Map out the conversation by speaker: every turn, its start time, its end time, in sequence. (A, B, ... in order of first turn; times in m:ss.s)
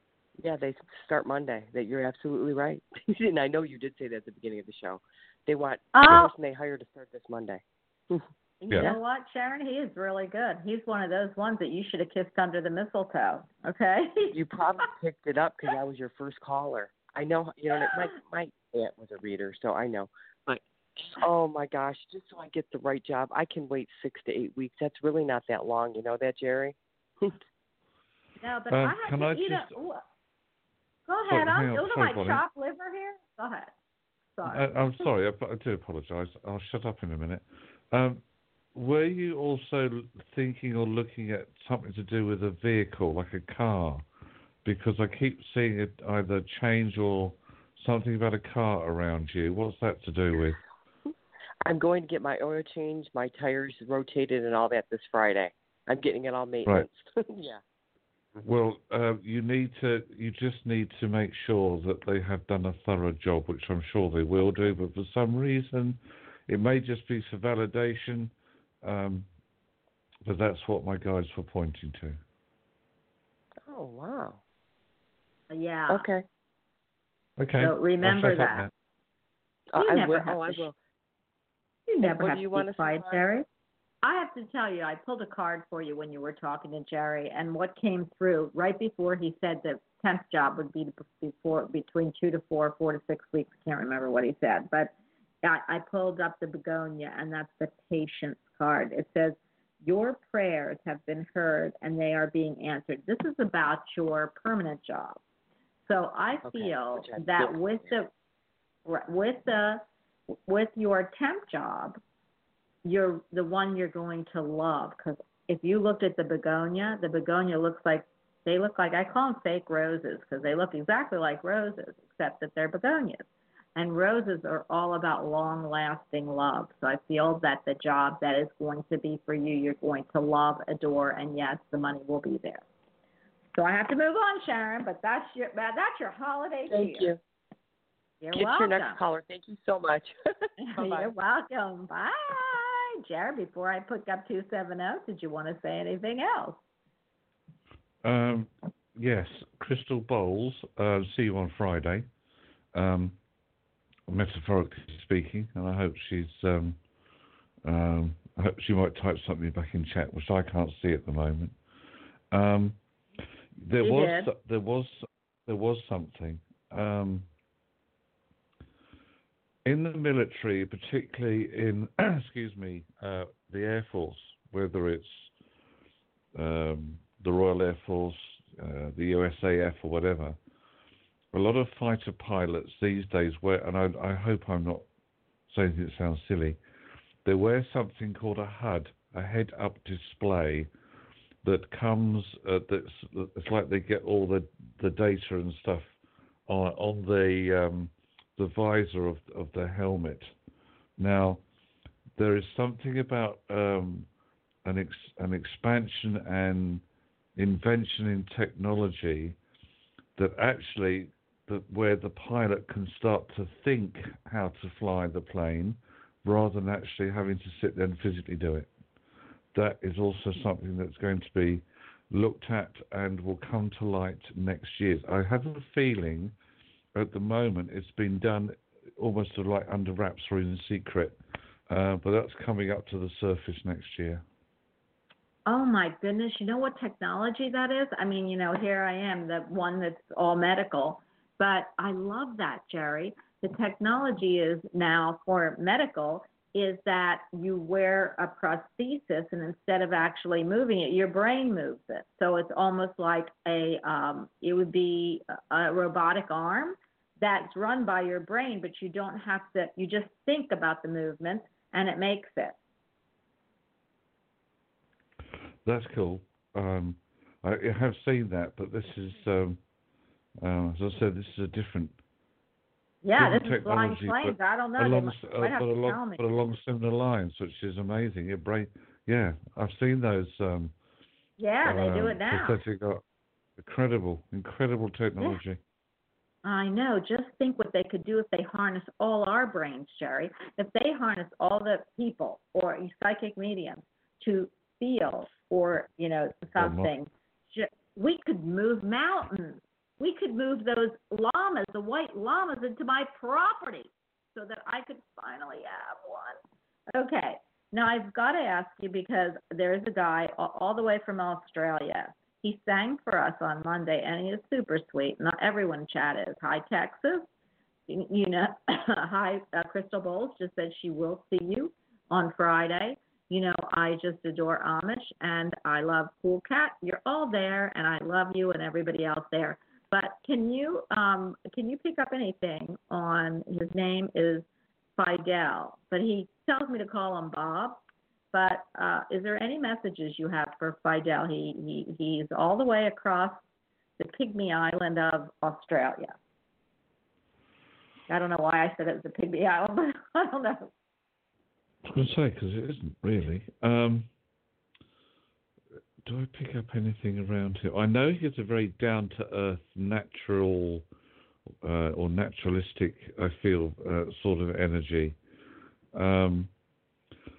0:00.4-0:09.0 A
0:05.9-0:06.3 B
0:08.6-0:14.3 B
0:08.7-0:09.0 C
0:14.3-0:27.4 A
0:28.4-0:30.0 B
0:28.7-0:29.8 C
0:31.1-0:33.7 B
0:31.3-0:32.4 C
0:34.4-0:34.6 B
0:34.4-0:38.2 C
0:38.7-0:44.0 C
0:44.6-0:50.6 C
0:51.6-0:57.6 A
0:58.4-1:09.3 C
1:10.2-1:12.2 C
1:13.6-1:14.4 A
1:15.5-1:16.1 B
1:15.9-1:16.2 A
1:17.4-1:18.7 C
1:17.6-1:18.7 B
1:19.7-1:20.7 A
1:19.8-1:20.7 B
1:21.9-1:23.4 B
1:22.0-1:23.3 A
1:24.0-1:45.2 B
1:45.8-1:48.1 B
1:46.4-1:47.9 A
1:48.8-1:49.8 B
1:50.5-1:52.0 B
1:52.8-2:03.2 B
2:03.8-2:12.6 B
2:13.5-2:17.1 B
2:16.7-2:17.2 A
2:18.2-2:19.0 B
2:18.3-2:21.1 A
2:20.7-2:26.6 B
2:28.0-2:32.1 C
2:32.7-2:33.2 C
2:34.1-2:36.8 C
2:37.6-2:41.6 C
2:42.3-2:42.8 C
2:43.6-2:47.3 C
2:43.8-2:44.3 B
2:49.6-2:55.3 C
2:56.3-3:00.4 C
3:01.3-3:04.8 C
3:05.5-3:06.6 C
3:07.2-3:10.7 C
3:11.4-3:15.9 C
3:16.5-3:20.3 C
3:21.0-3:21.4 C
3:22.2-3:24.1 C
3:24.6-3:26.8 C
3:27.4-3:29.4 C
3:30.2-3:38.7 C
3:39.5-3:46.3 C
3:46.9-3:51.2 C
3:51.7-3:54.2 C
3:55.4-4:22.6 B
4:25.6-4:29.6 C
4:30.4-4:32.0 C
4:33.0-4:36.2 B
4:33.2-4:40.7 C
4:41.4-4:42.6 B
4:41.6-4:43.0 C
4:43.6-4:45.6 C
4:46.4-5:06.4 B
4:56.6-4:56.9 C
5:06.9-5:17.3 B
5:17.9-5:34.4 B
5:35.0-5:37.8 B
5:38.3-5:43.4 B
5:44.0-5:46.1 B
5:48.1-5:50.7 B
5:51.8-5:54.1 C
5:56.0-6:00.8 C
6:01.6-6:05.2 C
6:05.9-6:06.5 C